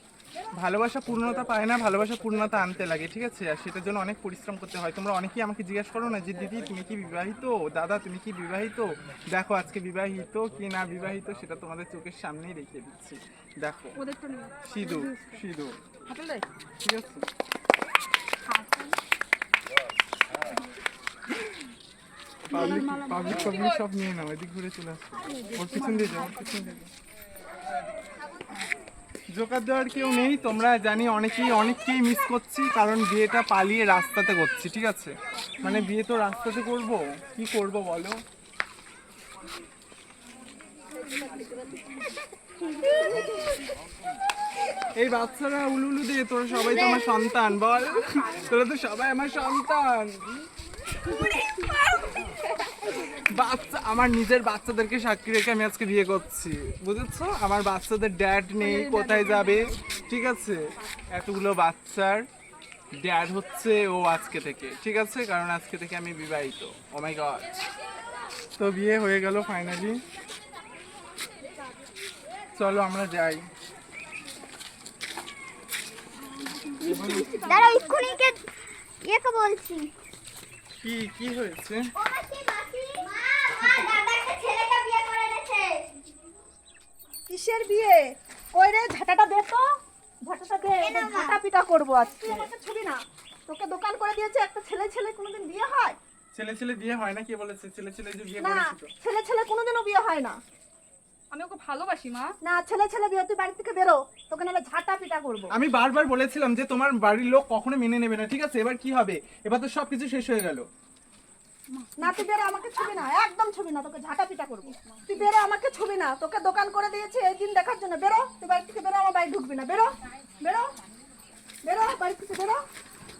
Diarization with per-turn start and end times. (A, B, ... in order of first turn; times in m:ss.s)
0:00.5-0:14.0 A
0:14.0-0:15.4 B
0:14.7-0:15.8 A
0:16.1-0:16.4 B
0:16.8-0:17.2 A
0:18.4-0:18.9 B
0:22.5-0:23.6 B
0:22.5-0:26.9 A
0:25.3-0:26.6 B
0:29.3-0:38.2 A
0:35.6-0:35.9 B
0:45.0-0:50.4 A
0:46.5-0:47.4 C
0:51.1-0:52.3 A
0:52.8-1:00.6 A
0:58.6-0:59.8 B
1:01.1-1:02.3 A
1:03.0-1:07.5 A
1:08.6-1:10.0 A
1:12.6-1:13.4 A
1:16.2-1:18.2 B
1:16.8-1:17.6 A
1:17.0-1:18.4 C
1:19.0-1:19.9 C
1:20.8-1:21.8 A
1:22.0-1:25.8 C
1:27.3-1:28.0 D
1:28.5-1:29.6 D
1:30.3-1:36.0 D
1:30.8-1:31.4 C
1:36.3-1:38.9 A
1:38.4-1:40.4 D
1:41.3-1:42.3 B
1:42.4-1:45.5 D
1:45.5-1:50.7 A
1:51.8-1:52.3 B
1:52.0-2:00.7 D
1:54.8-1:55.0 B
2:01.7-2:02.6 D